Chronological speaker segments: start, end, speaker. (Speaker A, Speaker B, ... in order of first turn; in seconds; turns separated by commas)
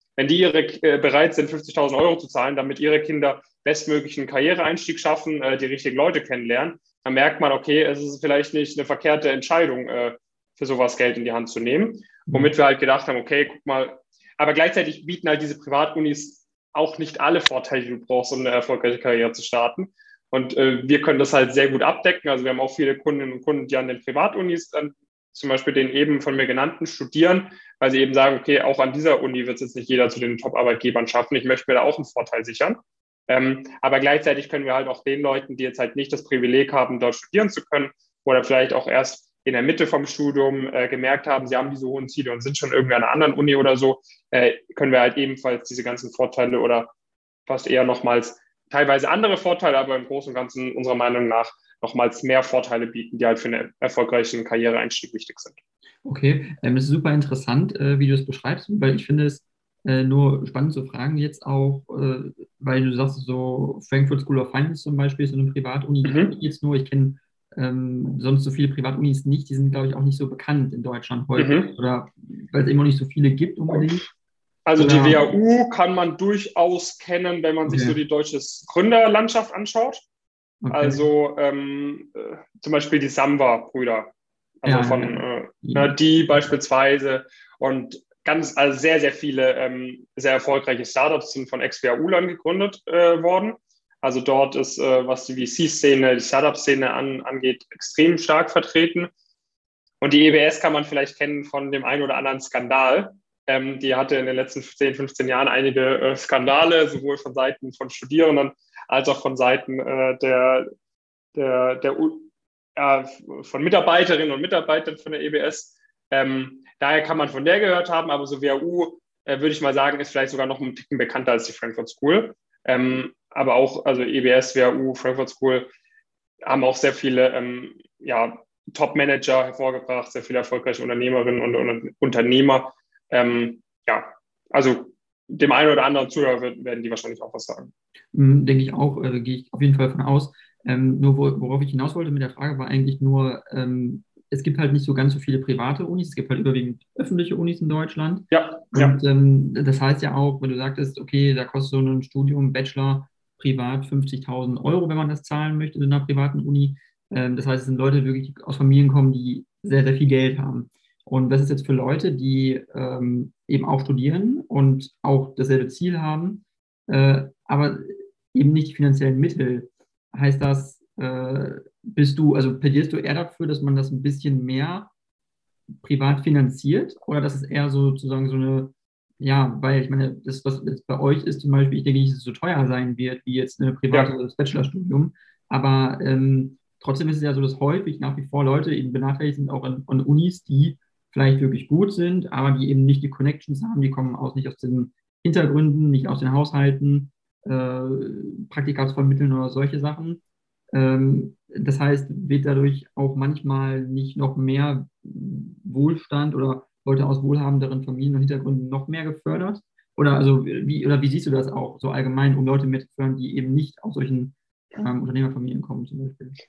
Speaker A: 0.2-32.8, Speaker A: 33.3-46.9, Speaker A: 47.5-55.6, Speaker B: 56.0-74.1, Speaker A: 66.0-66.3, Speaker A: 71.4-71.8, Speaker A: 74.7-80.0, Speaker B: 74.8-75.3, Speaker B: 77.6-78.0, Speaker B: 80.6-81.0, Speaker A: 80.7-99.1, Speaker B: 84.6-85.9, Speaker A: 100.0-110.7, Speaker A: 111.3-125.7, Speaker A: 126.5-137.7, Speaker B: 138.1-174.9, Speaker A: 148.3-149.0, Speaker B: 175.8-200.2, Speaker B: 200.7-216.4